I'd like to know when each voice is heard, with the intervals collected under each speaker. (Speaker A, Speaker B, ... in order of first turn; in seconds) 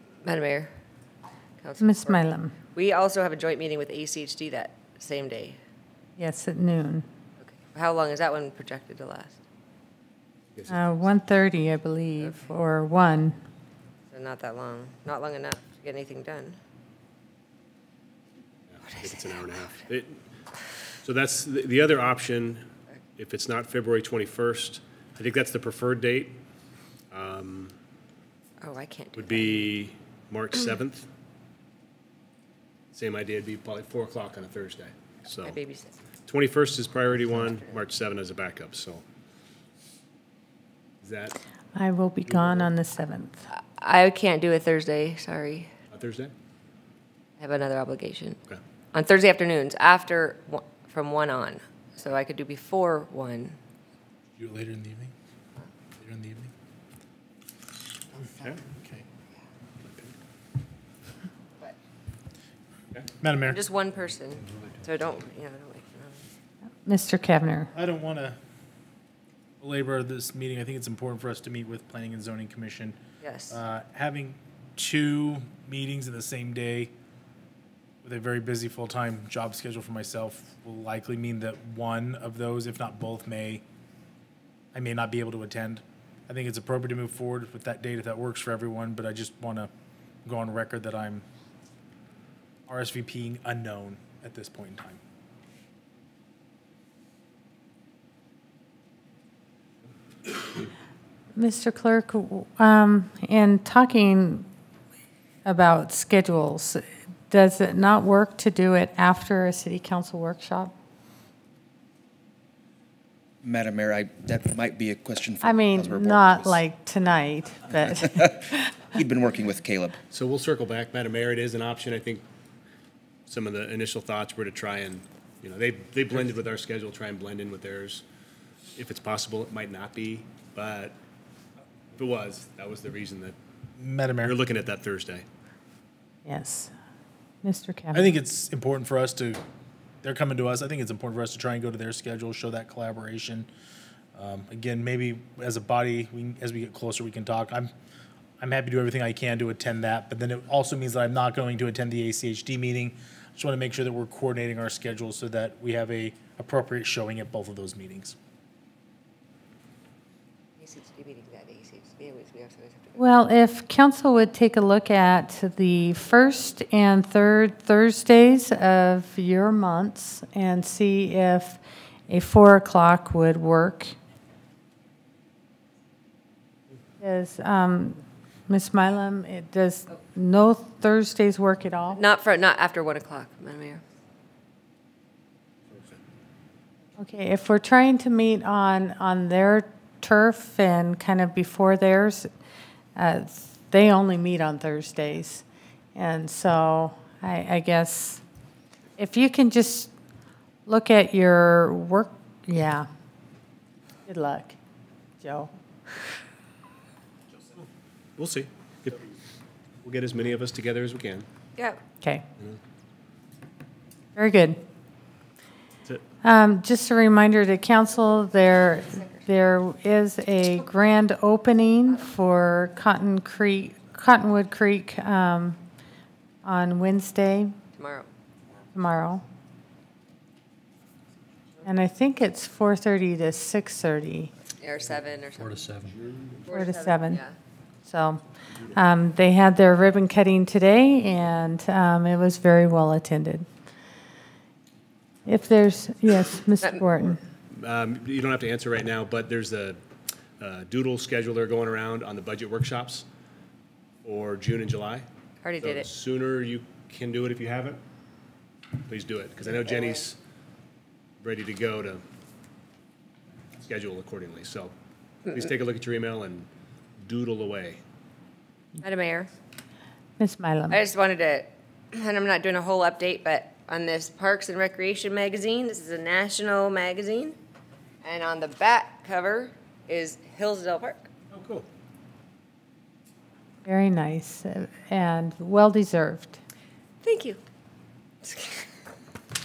Speaker A: 0.2-0.7, 1.6-5.6, 7.4-9.4, 14.1-16.6, 18.9-19.7, 28.6-29.7, 35.4-35.9, 43.5-45.7, 47.4-48.4, 48.9-53.6, 63.4-66.2, 73.2-73.6, 160.6-163.1, 181.9-183.8, 227.8-228.1, 234.6-235.7, 236.5-237.3, 255.4-255.9, 268.8-269.3, 270.7-277.4, 278.0-281.1, 287.0-287.4, 288.2-288.6
Speaker B: 1.8-2.5, 6.2-7.0, 10.7-13.4, 41.7-43.5, 66.8-67.7, 101.3-104.5, 105.5-110.7, 115.4-118.7, 136.2-136.7, 137.4-138.1, 163.0-173.9, 177.0-182.0, 187.0-192.3, 193.0-195.4, 195.9-198.2, 199.0-199.9, 200.7-202.9, 204.1-204.6, 205.2-205.5, 214.2-214.6, 216.2-225.6, 226.4-227.6, 228.7-229.2, 231.6-234.3, 236.5-237.2, 237.9-243.5, 245.3-247.2, 270.2-270.8, 283.6-286.4
Speaker C: 18.7-20.2, 21.0-22.6, 23.2-26.4, 27.1-27.8, 29.2-31.1, 32.9-35.6, 36.3-39.0, 41.0-41.4, 45.9-46.3, 120.1-122.2, 123.3-128.0, 128.7-131.0, 131.9-133.4, 134.2-135.2, 208.2-209.0, 209.8-211.3, 235.9-236.4, 247.5-249.8, 250.4-253.1, 254.0-255.1, 255.6-257.8, 258.9-260.2, 261.2-262.0, 263.7-264.7, 265.3-266.5, 267.0-267.8, 281.3-281.7
Speaker D: 54.4-55.1, 56.0-56.5, 58.8-59.0, 63.2-63.6, 67.7-68.4, 69.6-73.0, 73.5-76.9, 78.0-83.6, 84.7-89.7, 90.2-91.2, 92.7-95.0, 133.8-134.3, 137.9-139.4, 140.0-143.5, 144.2-147.7, 148.4-158.2
Speaker E: 113.4-116.6, 119.0-120.0